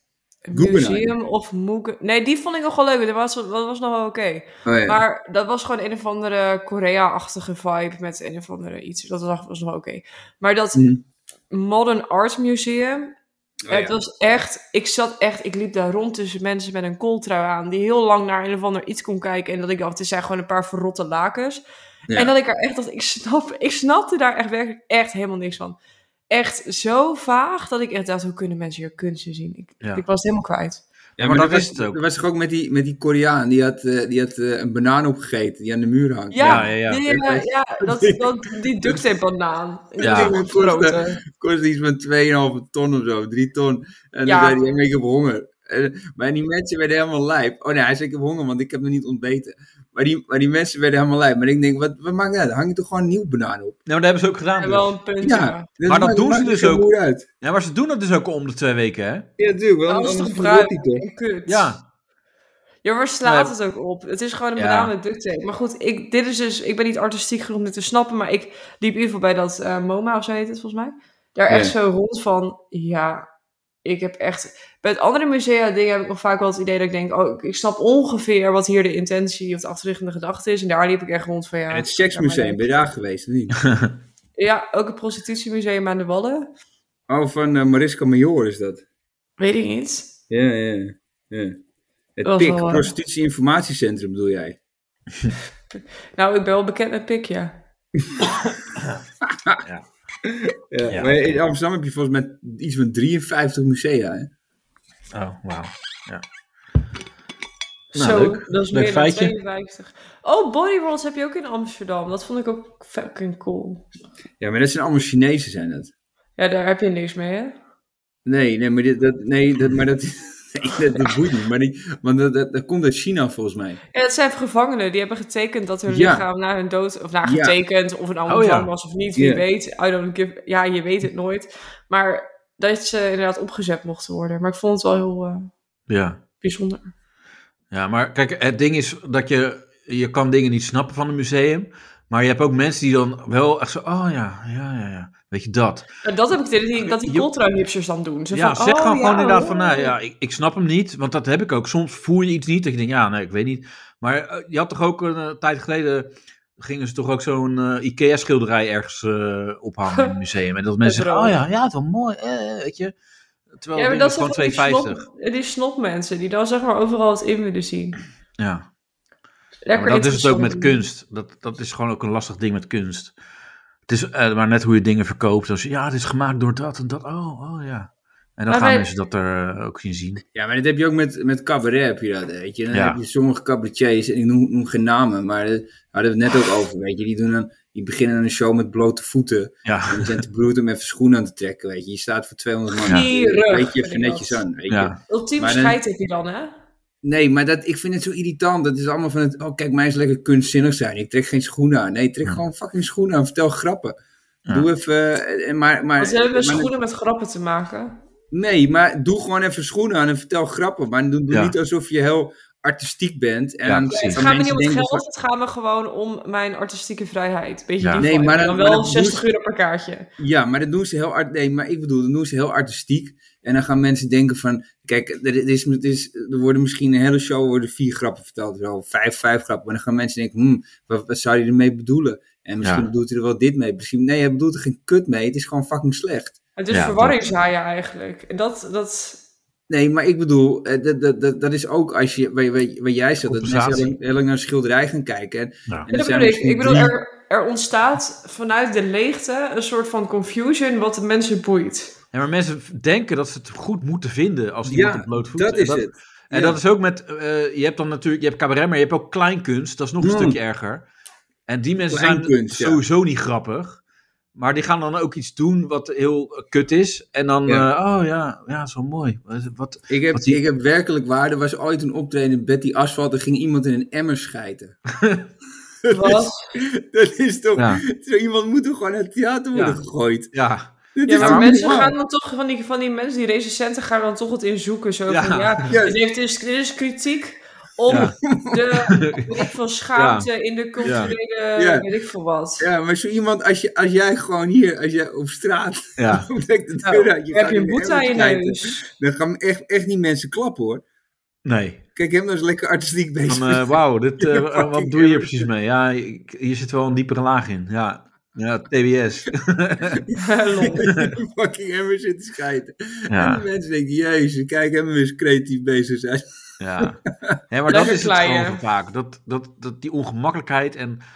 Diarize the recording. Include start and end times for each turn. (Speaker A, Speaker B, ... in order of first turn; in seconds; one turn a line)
Speaker A: 0.5-10.8
Speaker B: 0.5-1.1
Speaker B: 4.7-5.0
Speaker B: 10.7-11.0
Speaker A: 11.5-13.1
Speaker B: 13.7-14.0
Speaker A: 13.7-25.8
Speaker A: 26.3-30.8
Speaker C: 31.2-32.0
Speaker B: 31.2-38.2
Speaker A: 36.3-41.2
Speaker C: 36.4-37.0
Speaker B: 40.0-53.8
Speaker C: 40.0-40.3
Speaker A: 44.2-44.6
Speaker C: 53.9-54.9
Speaker A: 54.6-55.7
Speaker B: 55.2-57.3
Speaker C: 55.9-59.3
Speaker B: 59.4-61.0
Speaker A: 59.9-61.7
Speaker C: 61.5-61.8
Speaker A: 62.8-73.2
Speaker C: 63.2-63.5
Speaker C: 64.6-64.9
Speaker B: 71.5-71.7
Speaker A: 73.8-82.6
Speaker B: 81.7-83.6
Speaker C: 83.6-83.9
Speaker A: 84.4-86.5
Speaker B: 87.1-88.8
Speaker A: 89.4-90.1
Speaker B: 90.3-91.6
Speaker B: 92.2-94.6
Speaker A: 92.2-92.9
Speaker A: 95.7-97.6
Speaker C: 98.8-99.0
Speaker B: 99.2-99.6
Speaker B: 100.2-104.3
Speaker C: 100.9-101.1
Speaker C: 105.1-106.2
Speaker A: 107.9-113.9
Speaker C: 107.9-109.3
Speaker B: 114.4-115.9
Speaker A: 116.4-117.5
Speaker B: 118.2-123.8
Speaker A: 123.9-135.5
Speaker B: 125.9-126.2
Speaker B: 127.2-127.5
Speaker C: 128.3-128.7
Speaker B: 129.1-129.4
Speaker C: 135.9-136.2
Speaker A: 136.4-136.9
Speaker C: 137.7-145.9
Speaker A: 146.0-149.9
Speaker C: 146.8-147.2
Speaker C: 148.3-162.9
Speaker A: 160.8-161.4
Speaker C: 163.6-165.0
Speaker A: 163.7-168.0
Speaker C: 168.4-168.7
Speaker A: 169.7-170.8
Speaker C: 169.7-173.1
Speaker C: 173.9-180.2
Speaker A: 178.5-178.8
Speaker B: 180.3-195.8
Speaker C: 182.7-183.0
Speaker C: 189.6-190.2
Speaker A: 192.8-194.4
Speaker C: 194.7-195.0
Speaker A: 195.1-196.5
Speaker B: 197.0-203.9
Speaker B: 204.5-206.7
Speaker A: 206.0-208.0
Speaker B: 208.3-215.0
Speaker C: 213.7-214.2
Speaker A: 213.9-220.1
Speaker C: 217.8-218.1
Speaker B: 218.0-219.2
Speaker B: 220.2-236.4
Speaker C: 232.6-232.9
Speaker A: 236.6-239.2
Speaker C: 236.7-237.2
Speaker B: 239.7-246.9
Speaker C: 243.2-243.9
Speaker A: 245.9-251.9
Speaker C: 252.1-260.9
Speaker B: 254.7-256.6
Speaker B: 260.0-260.4
Speaker C: 261.5-263.8
Speaker B: 261.9-262.8
Speaker C: 264.3-270.4
Speaker B: 269.9-274.8
Speaker C: 275.0-275.2
Speaker B: 275.8-280.3
Speaker A: 275.9-276.5
Speaker C: 277.6-277.8
Speaker C: 279.5-279.8
Speaker C: 280.3-281.6
Speaker B: 280.9-281.9
Speaker A: 281.1-292.7
Speaker C: 285.1-285.7
Speaker B: 285.7-286.0
Speaker C: 287.9-288.1
Speaker B: 287.9-288.9
Speaker C: 288.9-289.4
Speaker C: 289.9-290.3
Speaker C: 290.8-291.1
Speaker B: 290.8-291.9
Speaker B: 292.6-300.8
Speaker C: 296.0-296.3
Speaker A: 296.8-298.8
Speaker C: 301.4-301.8
Speaker B: 301.9-305.5
Speaker C: 303.3-310.0
Speaker A: 310.2-310.9
Speaker B: 310.6-316.3
Speaker C: 310.9-311.1
Speaker C: 313.1-313.4
Speaker C: 316.6-321.0
Speaker B: 316.8-318.0
Speaker A: 317.7-318.6